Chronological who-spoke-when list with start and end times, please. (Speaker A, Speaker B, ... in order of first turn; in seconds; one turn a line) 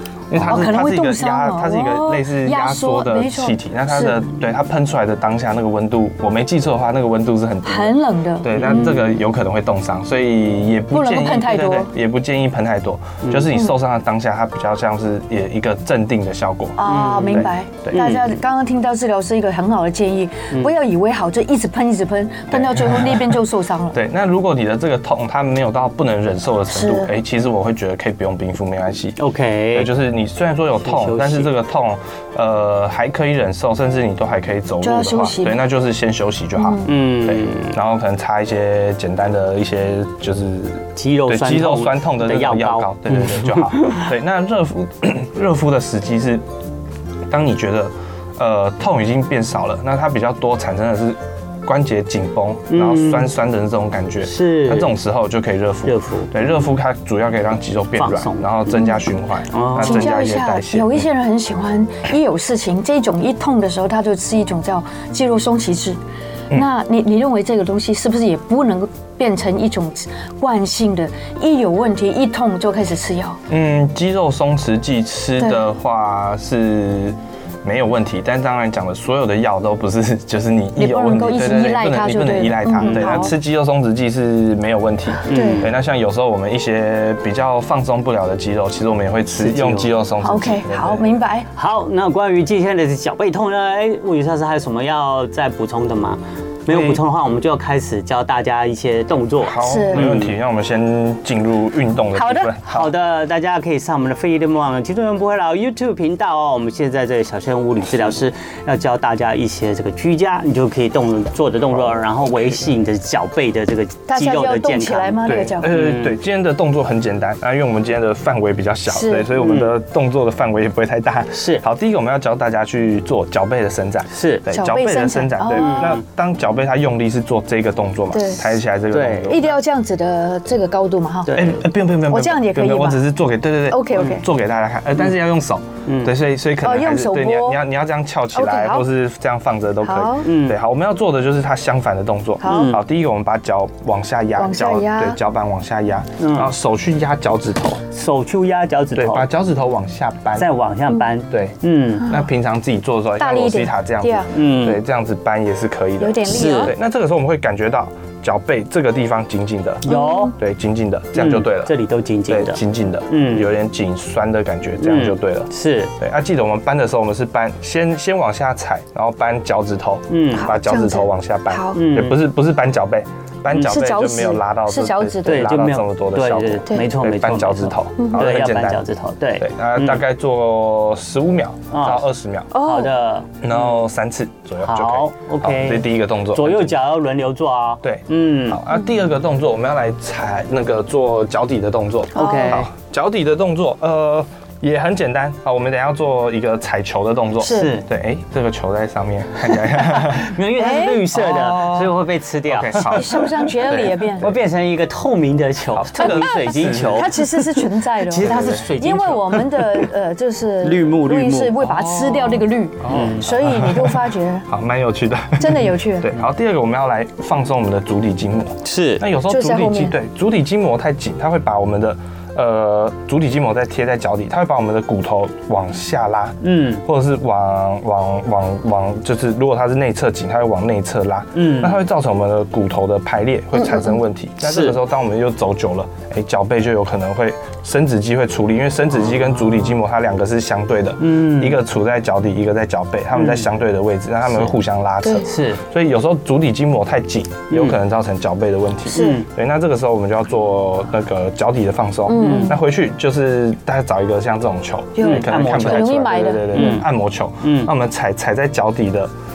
Speaker A: 0.3-18.0
Speaker B: 0.4-4.2
Speaker B: 7.6-8.8
Speaker C: 8.5-9.2
Speaker B: 10.9-11.9
Speaker B: 16.8-24.0
Speaker C: 16.8-18.3
Speaker A: 22.5-23.4
Speaker A: 23.9-29.2
Speaker B: 26.7-27.1
Speaker C: 29.2-29.9
Speaker A: 29.7-46.4
Speaker C: 30.8-31.5
Speaker B: 34.8-35.6
Speaker B: 36.6-36.9
Speaker C: 36.8-37.8
Speaker C: 41.0-44.1
Speaker A: 47.3-61.0
Speaker C: 52.7-53.3
Speaker C: 54.2-54.9
Speaker C: 55.9-56.4
Speaker C: 58.0-58.5
Speaker C: 59.5-60.1
Speaker B: 59.8-66.0
Speaker B: 66.5-73.4
Speaker A: 73.5-91.2
Speaker B: 80.8-83.3
Speaker C: 82.8-83.3
Speaker C: 85.3-85.7
Speaker B: 85.3-85.7
Speaker C: 89.3-89.9
Speaker B: 90.2-91.5
Speaker C: 91.5-100.3
Speaker A: 96.7-97.0
Speaker A: 99.4-102.9
Speaker B: 99.6-100.1
Speaker B: 102.1-102.5
Speaker C: 102.7-116.2
Speaker B: 114.1-115.7
Speaker A: 115.2-129.6
Speaker B: 118.9-119.3
Speaker C: 119.4-119.7
Speaker C: 121.3-121.6
Speaker C: 124.1-124.4
Speaker B: 124.5-125.9
Speaker C: 125.5-126.0
Speaker B: 128.1-128.5
Speaker C: 128.9-129.4
Speaker B: 129.3-131.4
Speaker C: 131.2-131.6
Speaker A: 131.3-147.8
Speaker B: 132.1-133.1
Speaker B: 133.7-134.2
Speaker C: 135.8-136.1
Speaker B: 136.6-137.6
Speaker B: 138.3-138.9
Speaker B: 139.8-140.3
Speaker C: 140.2-140.6
Speaker B: 142.4-142.8
Speaker C: 142.4-142.8
Speaker B: 144.4-145.2
Speaker C: 146.2-146.5
Speaker C: 147.9-149.3
Speaker A: 148.9-150.5
Speaker C: 150.3-152.1
Speaker A: 151.3-159.8
Speaker B: 153.2-154.3
Speaker C: 154.3-154.8
Speaker B: 156.0-156.7
Speaker C: 156.2-156.7
Speaker C: 159.8-160.3
Speaker B: 159.8-160.3
Speaker A: 160.4-161.8
Speaker C: 161.1-162.6
Speaker A: 162.3-178.8
Speaker C: 163.1-163.5
Speaker C: 164.8-165.9
Speaker C: 170.1-170.5
Speaker B: 170.3-171.8
Speaker C: 171.7-172.2
Speaker B: 173.5-175.5
Speaker C: 175.2-180.0
Speaker A: 179.4-182.5
Speaker C: 181.7-182.1
Speaker B: 182.5-182.9
Speaker C: 182.6-183.8
Speaker A: 183.4-186.7
Speaker C: 184.6-188.6
Speaker A: 187.8-200.3
Speaker B: 192.1-192.7
Speaker C: 192.1-192.7
Speaker C: 197.4-197.9
Speaker B: 197.4-197.7
Speaker C: 199.5-209.9
Speaker B: 200.6-201.0
Speaker A: 201.1-204.4
Speaker B: 202.8-204.2
Speaker A: 205.7-207.3
Speaker B: 206.0-214.4
Speaker A: 208.1-208.7
Speaker C: 210.6-211.6
Speaker A: 211.6-259.1
Speaker C: 212.9-213.2
Speaker B: 215.4-216.1
Speaker C: 218.6-219.0
Speaker B: 219.3-219.9
Speaker C: 226.4-226.8
Speaker C: 231.3-231.8
Speaker B: 233.6-233.9
Speaker C: 234.4-234.8
Speaker C: 239.0-239.8
Speaker C: 241.0-241.6
Speaker C: 243.2-243.5
Speaker C: 245.2-245.6
Speaker C: 247.5-247.8
Speaker B: 248.9-249.2
Speaker C: 248.9-249.2
Speaker B: 252.1-252.6
Speaker C: 252.2-252.6
Speaker B: 254.9-256.8
Speaker C: 255.0-256.0
Speaker C: 256.5-256.9
Speaker C: 257.4-257.7